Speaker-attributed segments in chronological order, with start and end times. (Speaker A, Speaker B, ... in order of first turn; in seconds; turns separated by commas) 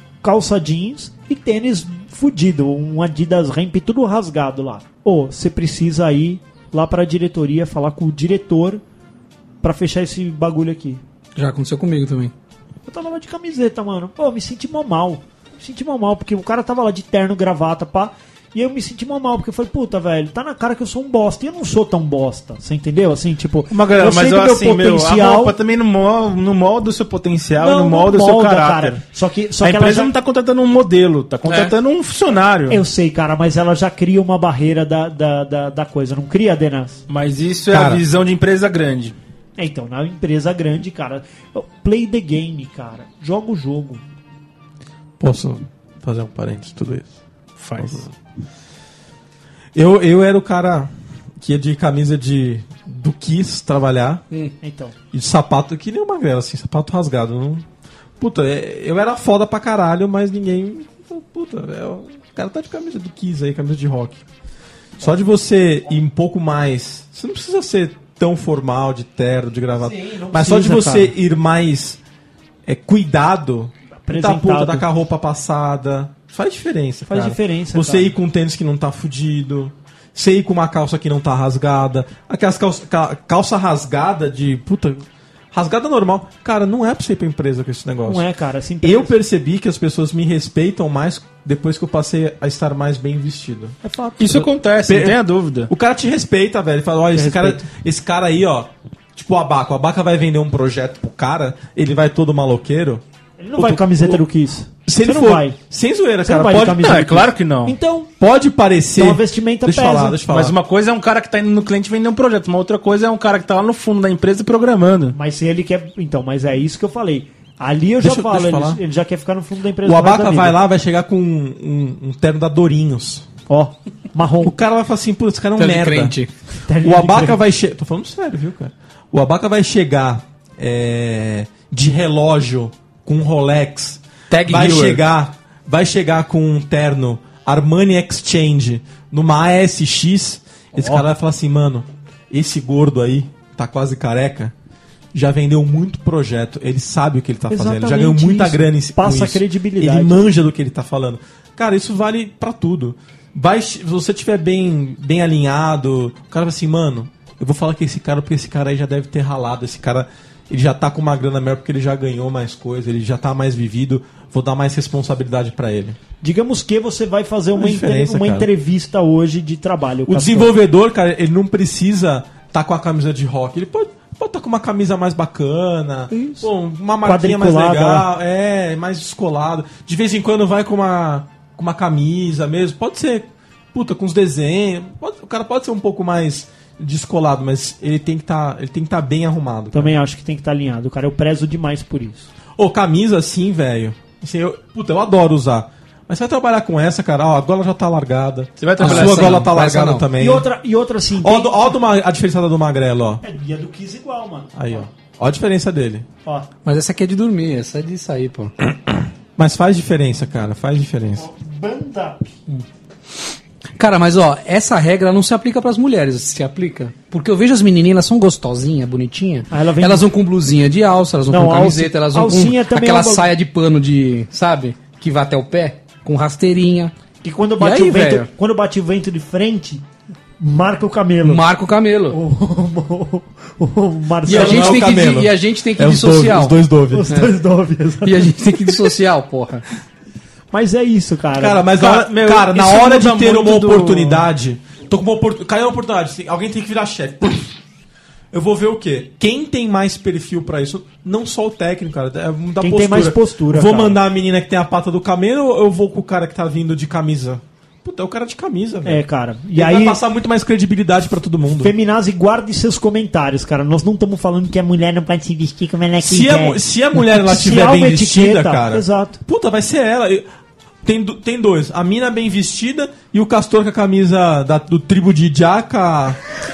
Speaker A: 0.2-8.8, Speaker A: 9.6-11.0, Speaker B: 11.3-12.3, Speaker A: 12.8-25.5, Speaker C: 23.7-29.0, Speaker A: 27.6-30.1, Speaker C: 29.6-32.8, Speaker B: 31.5-31.7, Speaker A: 32.7-37.0, Speaker C: 37.1-39.1, Speaker D: 37.7-38.0, Speaker A: 39.6-44.0, Speaker D: 45.2-47.1, Speaker C: 47.6-48.0, Speaker D: 47.8-48.1, Speaker D: 49.7-54.2, Speaker A: 54.6-54.9, Speaker D: 55.1-57.6, Speaker D: 58.2-64.2, Speaker D: 65.0-72.0, Speaker A: 69.8-71.1, Speaker D: 72.6-88.2, Speaker A: 74.0-74.8, Speaker A: 77.1-78.1, Speaker A: 88.1-89.1, Speaker D: 88.8-93.8, Speaker A: 93.8-94.5, Speaker C: 94.2-95.7, Speaker D: 94.8-103.0, Speaker A: 97.1-97.6, Speaker A: 103.4-105.6, Speaker D: 103.5-104.2, Speaker D: 104.8-107.0, Speaker A: 106.2-108.1, Speaker C: 106.8-107.8, Speaker D: 108.2-110.6, Speaker A: 109.0-110.2, Speaker C: 110.3-115.2, Speaker A: 115.1-120.5, Speaker D: 118.0-118.8, Speaker D: 119.8-123.3, Speaker A: 123.5-124.5, Speaker D: 124.4-126.1, Speaker B: 125.6-126.3, Speaker A: 126.7-127.4, Speaker D: 126.8-144.5, Speaker B: 134.3-135.0, Speaker D: 145.1-166.0, Speaker A: 147.5-150.3, Speaker A: 166.2-170.5, Speaker D: 167.6-168.5, Speaker D: 170.1-189.9, Speaker A: 176.1-176.5, Speaker A: 177.0-178.1, Speaker A: 189.7-192.3, Speaker D: 192.6-200.5, Speaker C: 198.6-199.5, Speaker B: 198.8-200.1, Speaker A: 200.2-201.7, Speaker D: 201.2-203.2, Speaker A: 203.2-204.8, Speaker D: 204.6-206.1, Speaker B: 206.6-208.5, Speaker D: 209.3-211.2, Speaker A: 211.2-212.3, Speaker B: 213.8-226.9, Speaker A: 219.5-220.1, Speaker A: 221.3-223.2, Speaker A: 227.2-229.8, Speaker B: 227.6-228.3, Speaker A: 230.4-231.4, Speaker B: 231.2-232.2, Speaker A: 232.1-234.9, Speaker B: 234.2-237.3, Speaker D: 234.2-237.1, Speaker A: 236.9-238.7, Speaker B: 238.0-239.6, Speaker A: 240.5-241.7, Speaker D: 241.3-247.5, Speaker C: 241.7-244.3, Speaker D: 248.3-259.0, Speaker A: 252.6-254.0, Speaker A: 258.8-260.0, Speaker D: 259.5-261.7, Speaker A: 261.6-269.2, Speaker D: 266.0-270.2, Speaker D: 270.8-276.2